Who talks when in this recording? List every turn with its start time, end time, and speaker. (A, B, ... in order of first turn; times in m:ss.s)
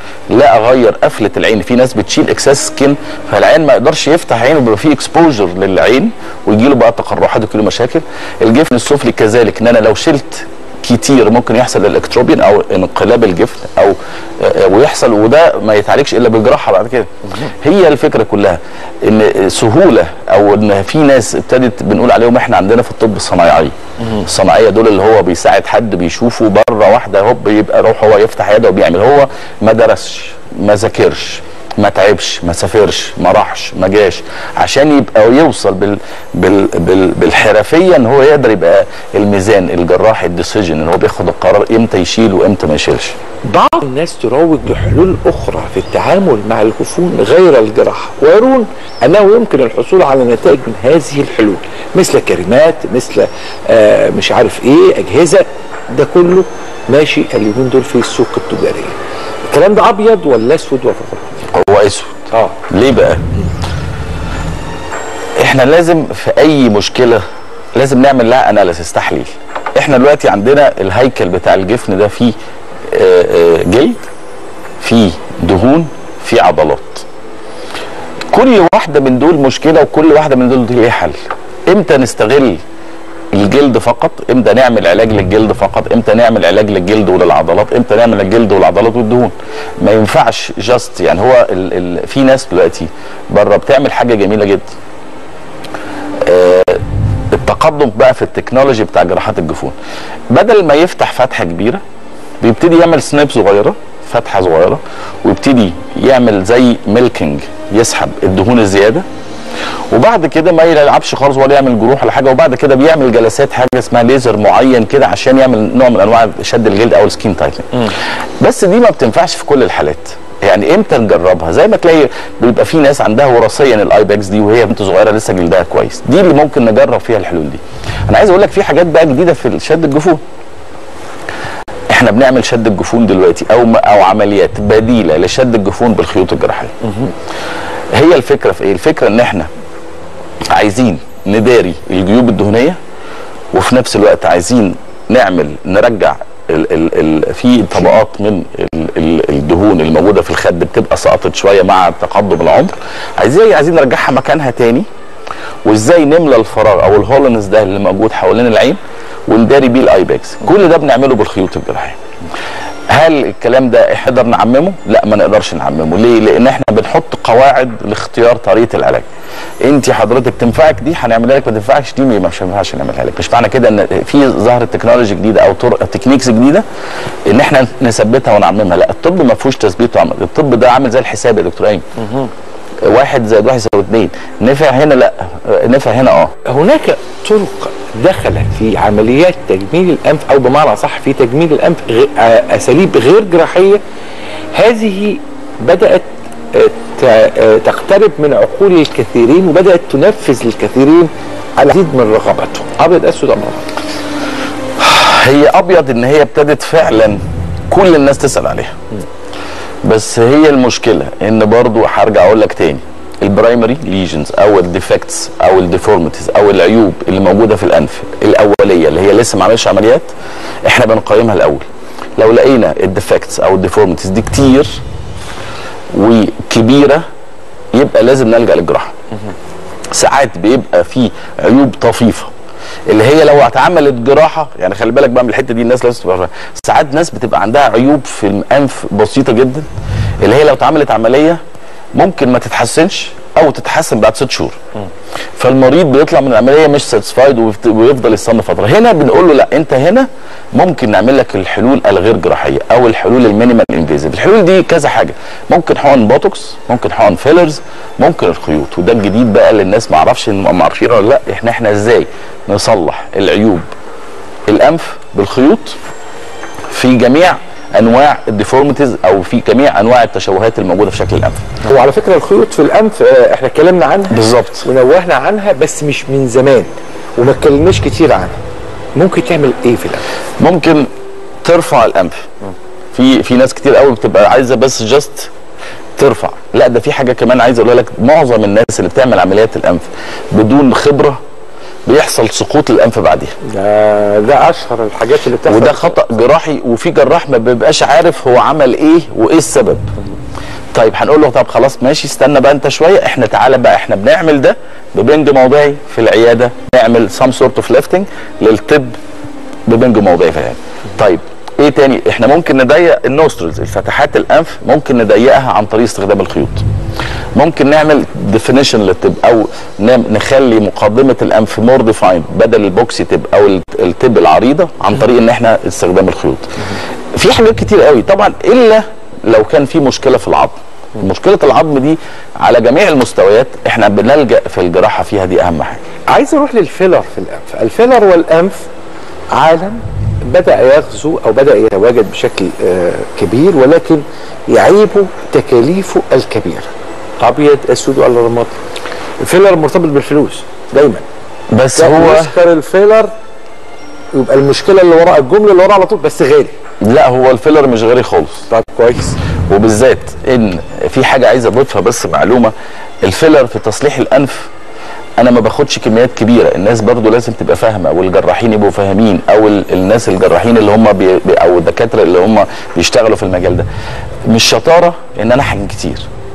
0:00.3-0:43.2 A
0:43.4-0:59.0 B
0:59.5-1:01.4 B
1:01.5-1:03.3 A
1:02.3-1:02.6 B
1:05.4-1:07.2 A
1:07.7-1:12.3 A
1:12.9-1:14.0 A
1:14.8-1:17.1 A
1:18.3-1:22.6 A
1:23.3-1:34.7 A
1:36.2-1:39.7 A
1:40.3-1:41.8 A
1:42.4-1:49.0 A
1:49.9-2:10.2 A
2:11.9-2:16.8 A
2:17.9-2:19.5 A
2:20.5-2:22.8 A
2:23.5-2:34.8 A
2:35.6-2:42.0 A
2:42.9-2:49.0 A
2:49.6-2:56.6 A
2:57.3-3:01.8 A
3:02.8-3:06.3 A
3:06.4-3:13.8 B
3:14.5-3:23.7 B
3:24.8-3:28.8 A
3:29.8-3:40.1 A
3:40.6-3:41.6 A
3:42.2-3:44.8 A
3:45.9-3:47.0 A
3:47.7-3:48.9 A
3:49.9-3:52.3 A
3:52.9-3:59.7 A
4:00.2-4:01.4 A
4:02.0-4:04.6 A
4:05.4-4:23.6 A
4:24.5-4:25.8 A
4:26.7-4:31.4 A
4:31.6-4:38.4 B
4:34.1-4:34.7 A
4:39.0-4:40.0 B
4:40.4-4:40.9 A
4:41.4-4:42.3 A
4:42.9-4:45.3 A
4:46.0-4:51.2 A
4:51.8-4:53.3 A
4:53.4-4:56.0 B
4:55.5-4:59.9 A
5:00.7-5:08.9 A
5:09.7-5:16.6 A
5:17.3-5:35.8 A
5:36.1-5:38.7 B
5:39.3-5:48.5 B
5:49.2-5:51.0 B
5:51.5-5:52.3 A
5:51.7-5:53.1 B
5:54.1-5:56.5 B
5:56.8-5:58.5 A
5:58.5-5:59.2 B
5:59.5-6:04.5 A
6:05.2-6:13.7 A
6:14.3-6:16.1 A